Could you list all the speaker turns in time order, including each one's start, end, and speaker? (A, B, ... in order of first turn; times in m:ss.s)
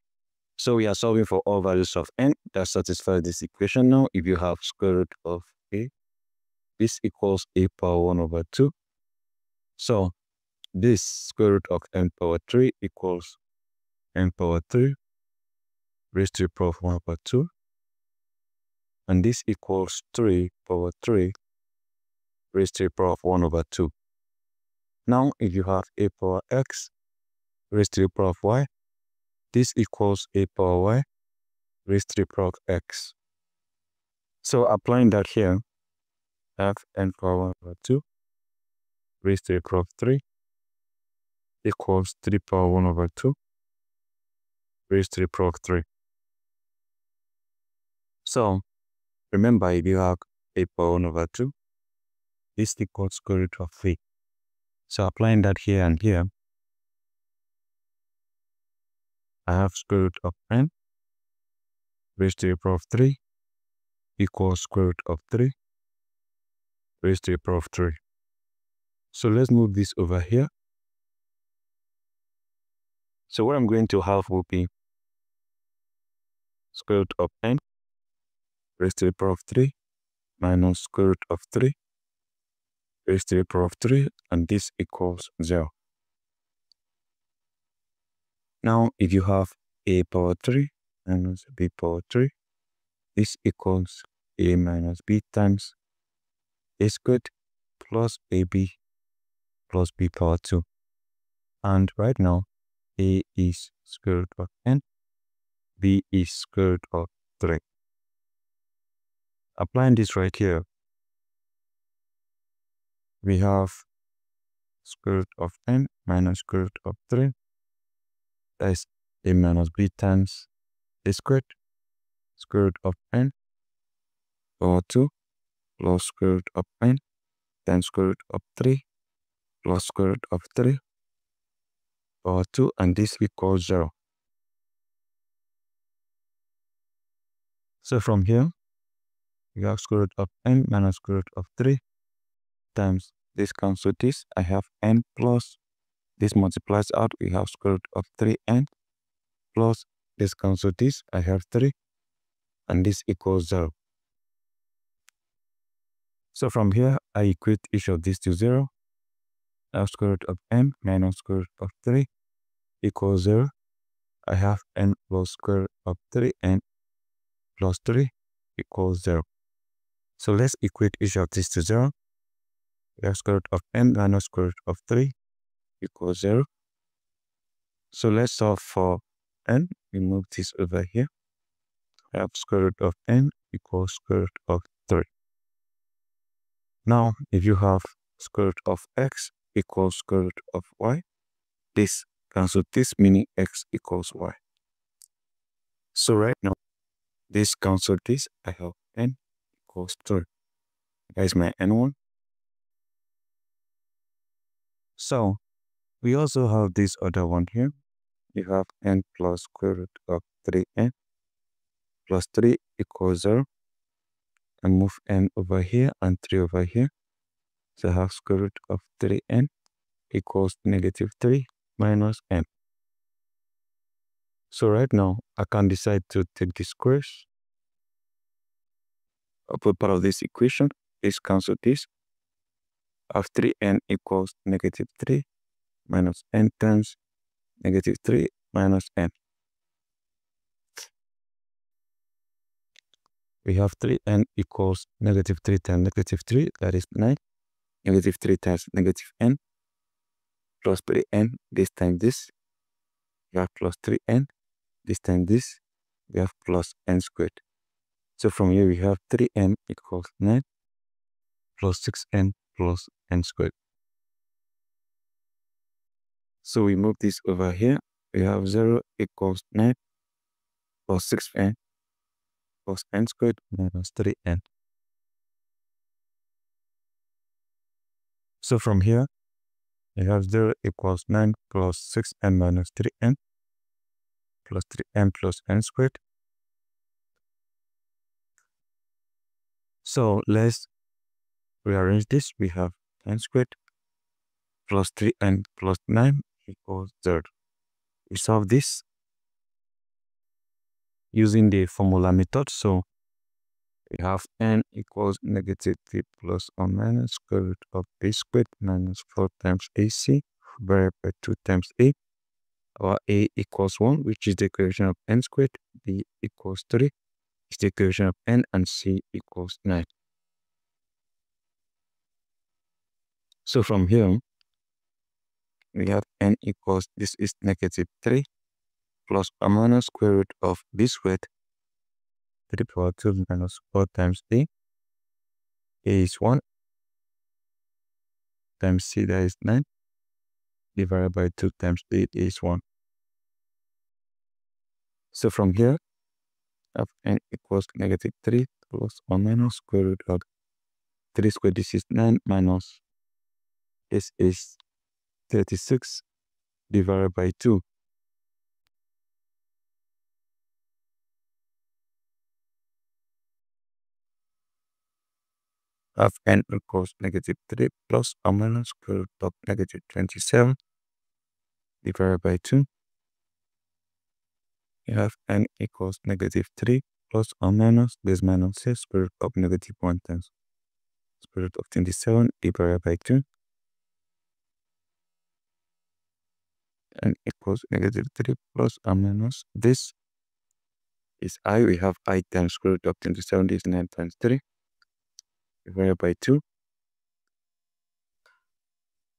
0:00.6-0:05.9 A
0:06.8-0:08.7 A
0:09.8-0:10.1 A
0:10.7-0:13.4 A
0:14.1-0:15.0 A
0:16.1-0:17.5 A
0:19.1-0:21.3 A
0:22.5-0:23.9 A
0:25.0-0:26.9 A
0:27.7-0:28.7 A
0:29.5-0:31.0 A
0:31.8-0:33.1 A
0:34.4-0:35.6 A
0:36.6-0:38.0 A
0:39.2-0:40.2 A
0:41.6-0:43.3 A
0:44.9-0:45.8 A
0:48.2-0:48.6 A
0:49.3-0:51.5 A
0:52.6-0:54.0 A
0:54.9-0:56.3 A
0:59.4-1:00.7 A
1:02.2-1:03.2 A
1:04.2-1:05.5 A
1:07.0-1:08.0 A
1:09.1-1:10.5 A
1:13.3-1:14.7 A
1:16.7-1:17.6 A
1:18.8-1:19.7 A
1:20.4-1:21.7 A
1:23.0-1:25.7 A
1:28.6-1:32.3 A
1:33.1-1:35.7 A
1:36.8-1:38.8 A
1:39.7-1:40.6 A
1:41.6-1:44.8 A
1:45.8-1:47.6 A
1:49.6-1:50.6 A
1:53.2-1:53.8 A
1:54.8-1:57.3 A
1:58.6-2:00.5 A
2:01.0-2:01.5 A
2:02.4-2:03.3 A
2:04.6-2:05.1 A
2:05.8-2:07.0 A
2:07.6-2:08.8 A
2:09.6-2:10.8 A
2:12.2-2:13.9 A
2:17.8-2:18.5 A
2:19.5-2:21.8 A
2:22.7-2:25.6 A
2:26.2-2:28.7 A
2:29.5-2:31.7 A
2:32.7-2:33.7 A
2:36.3-2:38.7 A
2:39.7-2:42.1 A
2:42.8-2:43.5 A
2:44.2-2:46.6 A
2:47.6-2:49.2 A
2:50.2-2:51.9 A
2:53.0-2:55.1 A
2:55.8-2:56.4 A
2:57.9-3:01.1 A
3:02.1-3:05.1 A
3:06.8-3:11.0 A
3:11.7-3:14.4 A
3:15.9-3:16.5 A
3:17.3-3:20.3 A
3:21.2-3:22.0 A
3:25.0-3:25.4 A
3:26.0-3:27.7 A
3:28.3-3:30.9 A
3:32.1-3:33.4 A
3:34.6-3:36.9 A
3:37.8-3:39.5 A
3:40.1-3:42.5 A
3:44.5-3:47.3 A
3:49.5-3:51.9 A
3:53.1-3:55.2 A
3:55.9-3:57.0 A
3:57.6-3:59.1 A
4:03.4-4:07.2 A
4:07.8-4:09.4 A
4:10.6-4:12.3 A
4:13.3-4:14.3 A
4:14.8-4:17.4 A
4:18.2-4:20.4 A
4:21.6-4:23.5 A
4:26.4-4:29.8 A
4:30.9-4:31.6 A
4:32.6-4:34.4 A
4:38.4-4:39.1 A
4:40.0-4:43.2 A
4:44.4-4:46.0 A
4:49.8-4:50.7 A
4:51.6-4:53.6 A
4:54.7-4:57.3 A
4:58.1-4:58.8 A
5:01.1-5:02.8 A
5:03.9-5:12.0 A
5:12.8-5:16.9 A
5:17.5-5:19.9 A
5:23.4-5:24.2 A
5:25.7-5:28.2 A
5:29.1-5:31.3 A
5:32.5-5:34.5 A
5:35.8-5:36.4 A
5:38.6-5:39.6 A
5:40.7-5:42.6 A
5:45.1-5:45.8 A
5:46.7-5:50.2 A
5:51.1-5:52.8 A
5:53.9-5:54.6 A
5:55.3-5:56.0 A
5:56.7-5:57.6 A
6:06.0-6:10.6 A
6:11.8-6:12.7 A
6:14.8-6:20.3 A
6:21.2-6:23.2 A
6:27.0-6:29.9 A
6:31.2-6:34.4 A
6:35.6-6:36.4 A